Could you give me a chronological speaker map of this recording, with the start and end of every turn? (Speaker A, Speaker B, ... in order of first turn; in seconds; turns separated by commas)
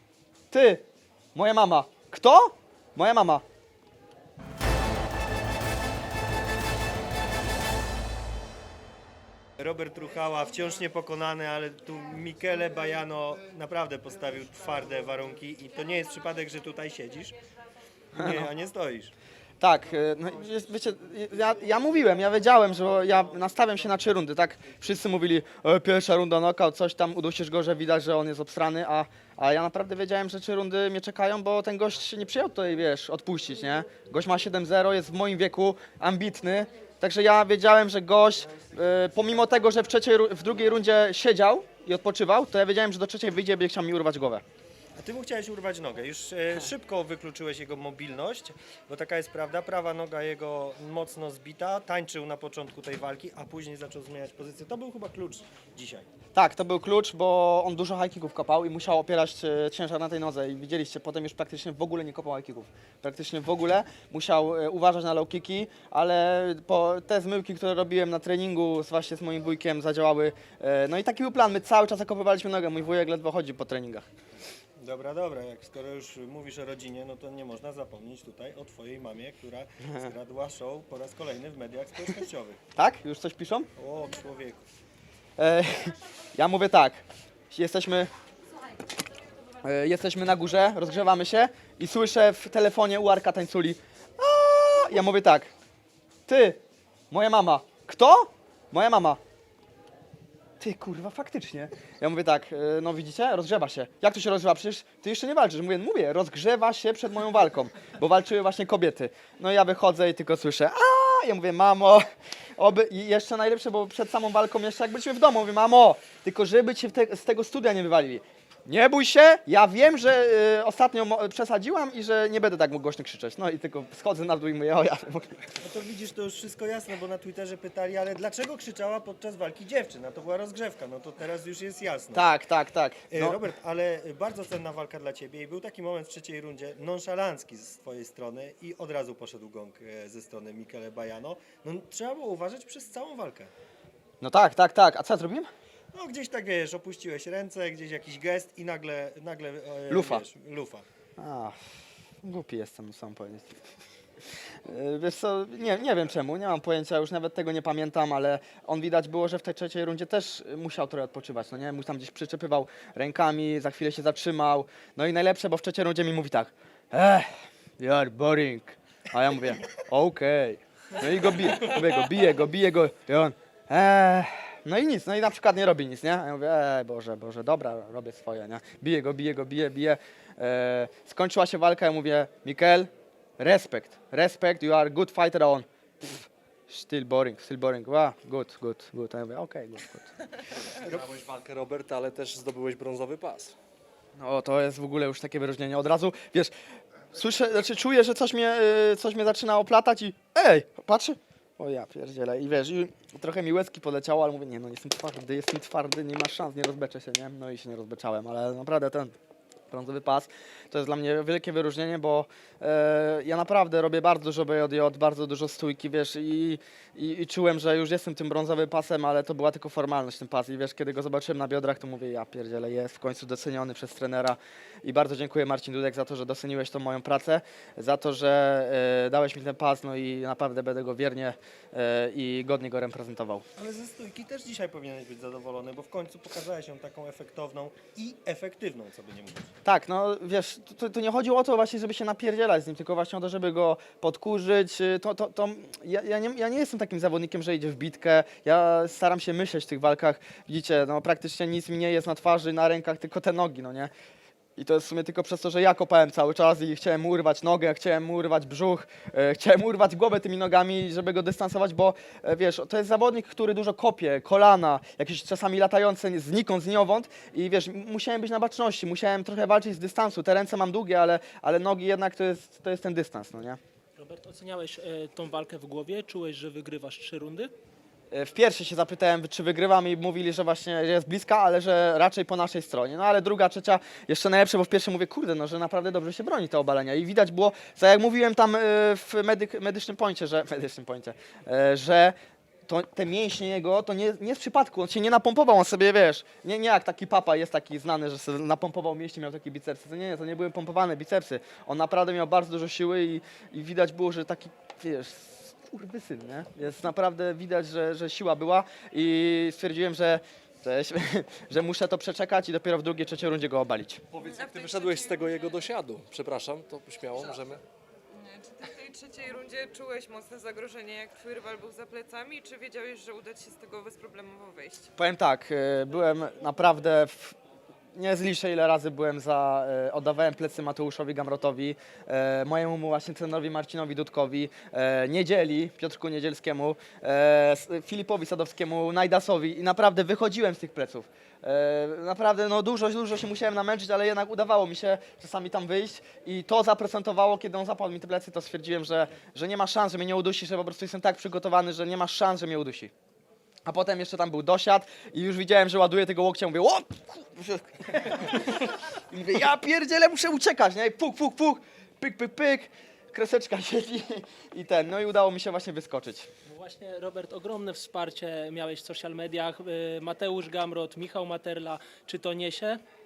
Speaker A: 0.5-0.8, Speaker A: 1.4-3.4, Speaker B: 9.6-17.4, Speaker B: 18.1-19.1, Speaker A: 18.2-18.4, Speaker A: 19.6-44.4, Speaker B: 45.0-56.1, Speaker A: 56.4-74.0, Speaker B: 74.8-82.6, Speaker A: 82.8-83.7, Speaker B: 83.8-84.6, Speaker A: 85.4-88.1, Speaker A: 89.6-95.5, Speaker A: 96.3-96.6, Speaker A: 97.1-99.2, Speaker A: 100.6-112.0, Speaker A: 112.6-125.4, Speaker B: 125.6-132.3, Speaker A: 132.1-133.4, Speaker B: 133.1-143.5, Speaker A: 144.2-145.5, Speaker B: 145.9-150.9, Speaker A: 149.9-150.2, Speaker A: 151.2-151.6, Speaker A: 152.2-153.6, Speaker A: 154.7-185.7, Speaker A: 186.7-190.1, Speaker C: 190.8-193.6, Speaker A: 194.2-196.5, Speaker A: 197.1-209.1, Speaker A: 209.7-233.4, Speaker B: 233.6-239.5, Speaker A: 239.7-253.9, Speaker A: 254.6-273.6, Speaker D: 274.0-277.5, Speaker A: 278.1-292.1, Speaker A: 292.7-314.0, Speaker C: 314.1-317.6, Speaker E: 314.2-315.6, Speaker E: 318.1-324.9, Speaker A: 325.0-327.4, Speaker A: 327.9-352.9, Speaker A: 353.6-366.3, Speaker D: 366.5-372.8